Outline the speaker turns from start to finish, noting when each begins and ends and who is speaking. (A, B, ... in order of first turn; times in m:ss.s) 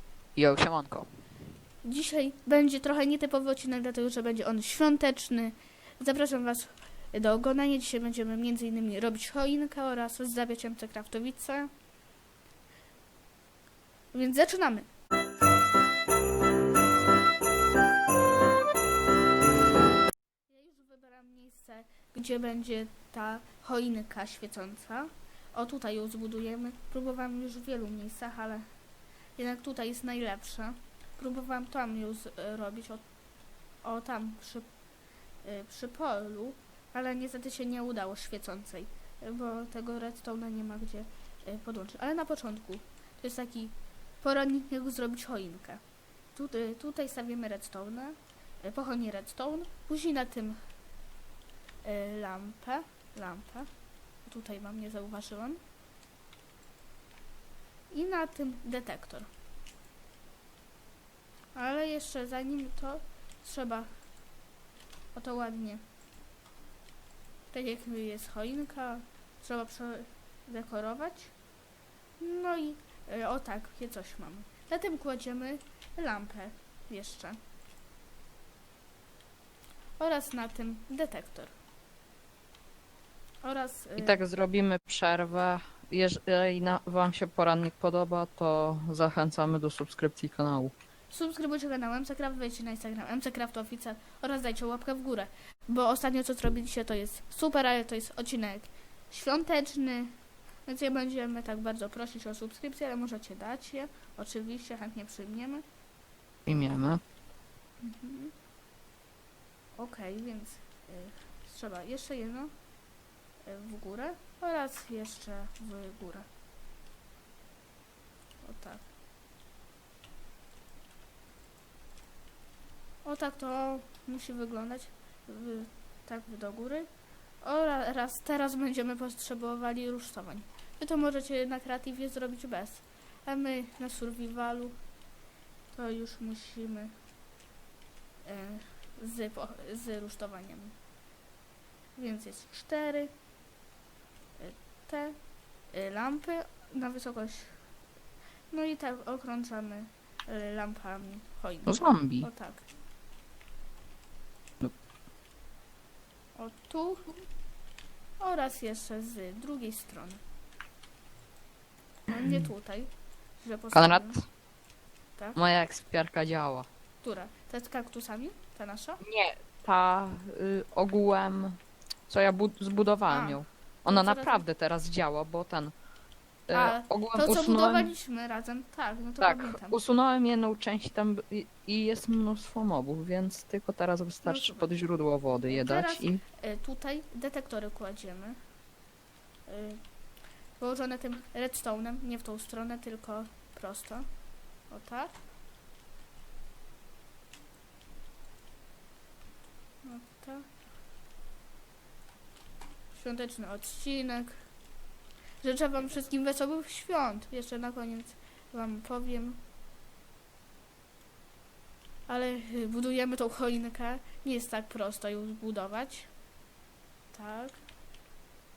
0:00.4-0:01.1 A
0:01.8-0:11.7 B
0:14.1-0:14.9 B
0:20.5-0:28.6 B
0:29.4-0:33.0 B
0:33.8-0:34.7 B
0:35.4-0:45.8 B
0:46.3-0:50.6 B
0:51.8-0:53.7 B
0:54.2-0:55.6 B
0:57.9-0:59.3 B
1:01.5-1:03.9 B
1:05.1-1:05.8 B
1:07.5-1:11.3 B
1:12.2-1:17.4 B
1:20.0-1:21.5 B
1:23.4-1:24.2 B
1:24.0-1:30.7 A
1:31.1-1:40.1 B
1:40.6-1:45.6 B
1:46.5-1:47.0 A
1:47.8-1:48.3 B
1:49.8-1:52.5 B
1:53.4-1:56.2 B
1:58.4-1:58.8 B
2:03.0-2:06.9 B
2:07.4-2:14.8 B
2:15.7-2:16.9 B
2:18.2-2:20.7 B
2:22.0-2:23.1 B
2:24.4-2:25.2 B
2:25.7-2:27.6 B
2:28.5-2:32.6 B
2:31.6-2:32.3 A
2:36.4-2:37.1 B
2:38.2-2:40.2 B
2:42.1-2:44.2 B
2:43.7-2:44.2 A
2:45.3-2:46.6 A
2:47.0-2:49.0 B
2:49.0-2:55.7 A
2:53.1-2:54.4 B
2:56.5-2:57.9 A
2:56.5-2:59.8 B
2:59.2-3:06.2 A
3:04.2-3:04.7 B
3:05.5-3:08.4 B
3:09.5-3:09.8 B
3:10.6-3:14.0 B
3:14.7-3:15.1 B
3:19.8-3:20.5 B
3:22.9-3:24.4 B
3:25.4-3:29.4 B
3:32.1-3:36.1 B
3:37.1-3:37.6 B